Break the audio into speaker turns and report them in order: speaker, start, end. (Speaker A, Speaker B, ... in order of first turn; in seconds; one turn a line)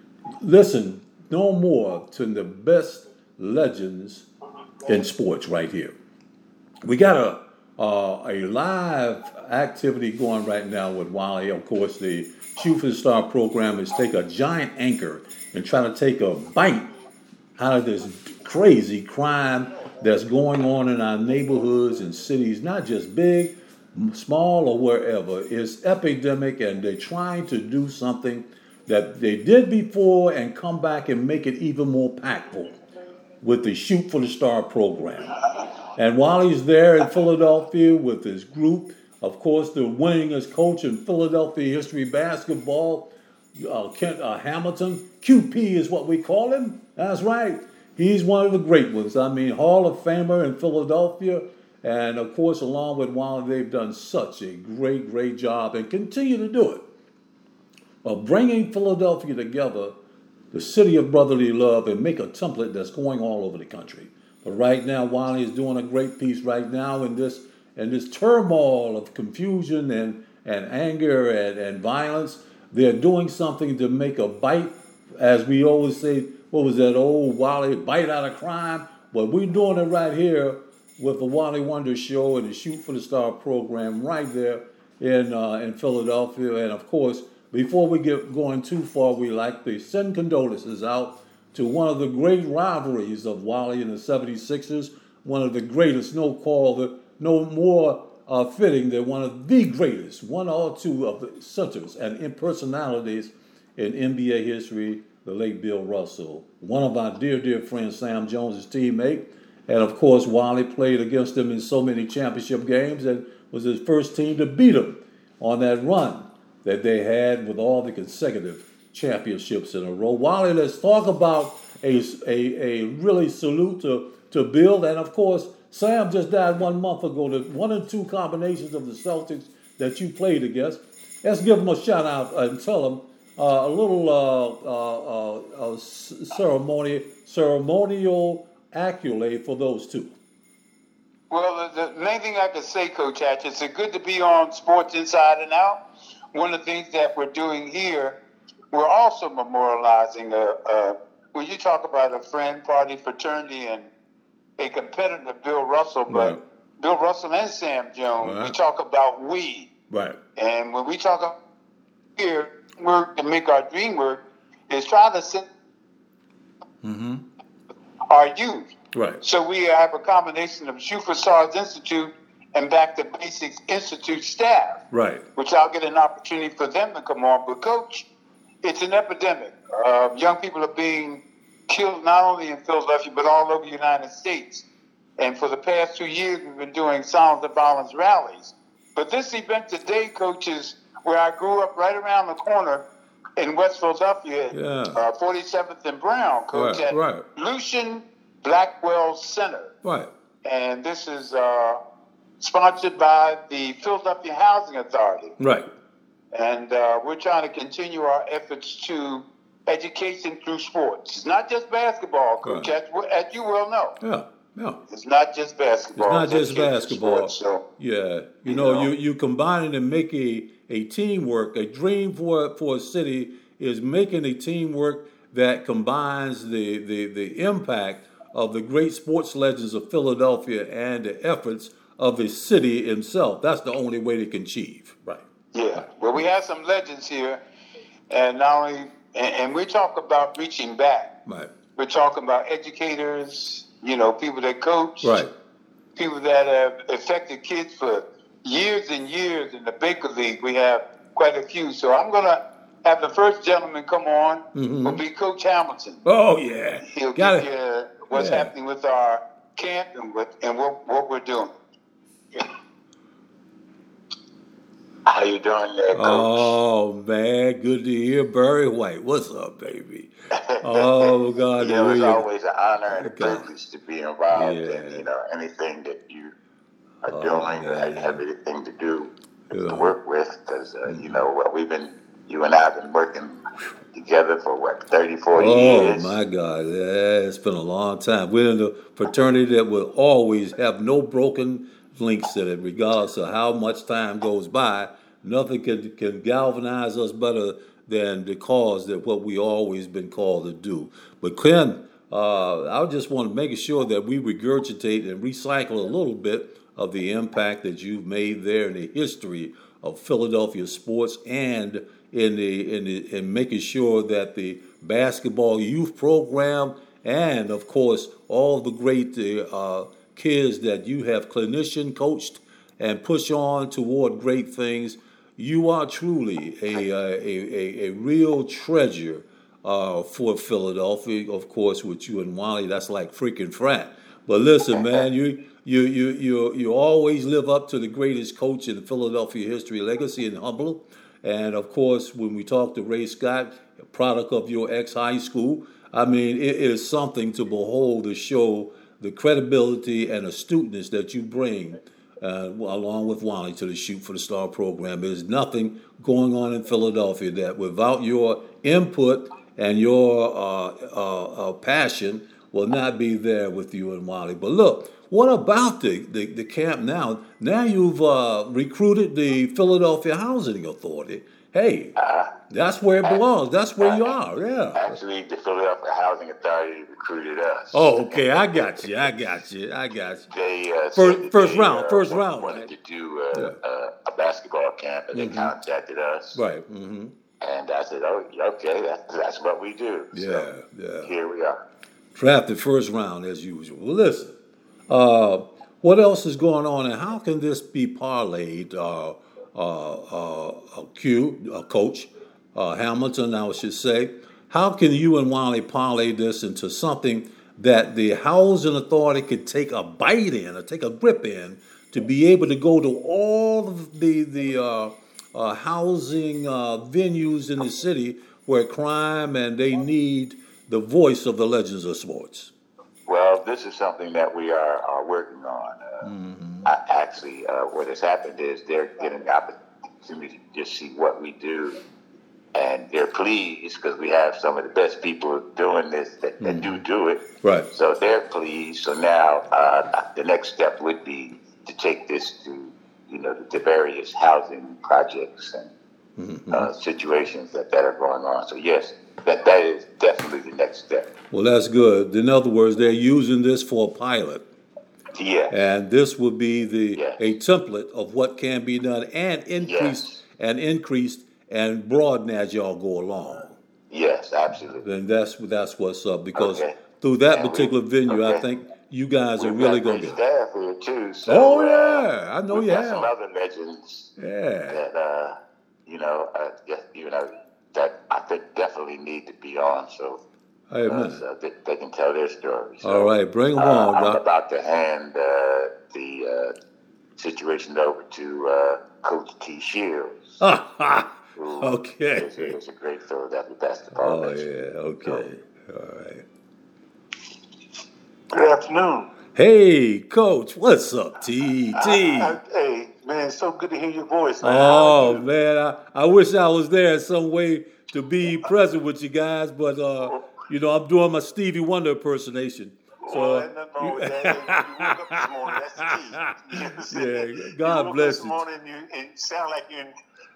Speaker A: 0.4-4.3
Speaker A: 4.9-6.0
Speaker A: 6.8-16.9
Speaker A: 17.6-32.8
Speaker A: 33.4-35.4
Speaker A: 36.0-56.9
Speaker A: 58.0-60.0
Speaker A: 60.5-140.2
Speaker B: 141.3-145.8
Speaker B: 146.3-148.2
Speaker B: 148.7-153.9
Speaker B: 154.6-159.7
Speaker A: 156.1-156.4
Speaker A: 158.2-158.6
Speaker A: 159.9-160.2
Speaker B: 160.4-161.3
Speaker B: 162.2-165.5
Speaker A: 166.8-167.2
Speaker B: 168.1-168.7
Speaker A: 168.9-169.2
Speaker B: 169.2-174.8
Speaker A: 174.9-175.2
Speaker B: 175.4-178.1
Speaker B: 178.6-184.7
Speaker B: 185.2-192.8
Speaker B: 193.4-199.7
Speaker A: 194.5-195.0
Speaker A: 196.5-197.2
Speaker A: 199.8-200.1
Speaker B: 200.4-201.8
Speaker B: 202.4-205.3
Speaker A: 205.4-205.7
Speaker B: 206.3-214.0
Speaker A: 212.4-212.7
Speaker A: 214.0-214.8
Speaker B: 214.9-217.6
Speaker A: 216.0-235.9
Speaker B: 218.5-218.9
Speaker B: 235.5-237.4
Speaker B: 238.1-241.1
Speaker A: 241.3-241.5
Speaker B: 241.8-245.2
Speaker A: 245.0-245.3
Speaker B: 246.0-256.1
Speaker A: 254.6-255.0
Speaker A: 256.1-257.5
Speaker B: 256.8-261.6
Speaker A: 258.1-258.5
Speaker C: 265.1-266.6
Speaker A: 265.9-272.3
Speaker C: 270.4-270.9
Speaker C: 271.6-276.3
Speaker A: 272.9-273.5
Speaker A: 274.3-275.1
Speaker C: 277.0-283.4
Speaker A: 277.1-278.2
Speaker A: 279.5-279.9
Speaker A: 280.9-281.3
Speaker C: 283.9-286.2
Speaker A: 285.4-371.9
Speaker C: 334.7-335.1
Speaker C: 372.0-372.4
Speaker A: 372.5-374.9
Speaker C: 373.8-374.1
Speaker C: 374.8-378.9
Speaker A: 377.7-380.3
Speaker C: 380.3-386.4
Speaker A: 380.9-382.7
Speaker A: 383.3-383.6
Speaker A: 385.1-385.5
Speaker A: 386.4-387.1
Speaker C: 387.4-390.5
Speaker A: 390.1-391.1
Speaker C: 391.0-391.6
Speaker A: 392.1-394.4
Speaker A: 394.9-422.5
Speaker C: 423.1-426.0
Speaker A: 426.0-426.7
Speaker C: 426.6-431.8
Speaker C: 432.5-445.7
Speaker A: 436.4-436.8
Speaker A: 437.4-437.7
Speaker A: 446.2-446.7
Speaker C: 446.5-451.1
Speaker A: 451.3-454.4
Speaker C: 455.1-455.6
Speaker A: 455.5-463.6
Speaker C: 459.6-460.2
Speaker C: 463.9-464.9
Speaker A: 464.8-470.2
Speaker C: 466.4-466.8
Speaker C: 467.3-468.4
Speaker C: 469.4-474.1
Speaker A: 471.3-473.1
Speaker A: 474.2-474.8
Speaker C: 474.7-480.2
Speaker A: 480.7-481.2
Speaker C: 480.9-486.5
Speaker A: 482.8-484.2
Speaker C: 487.2-490.4
Speaker A: 490.4-492.6
Speaker C: 491.4-494.4
Speaker A: 493.9-496.2
Speaker D: 498.3-499.1
Speaker A: 499.3-502.4
Speaker D: 501.8-505.3
Speaker A: 504.4-518.4
Speaker D: 513.1-519.9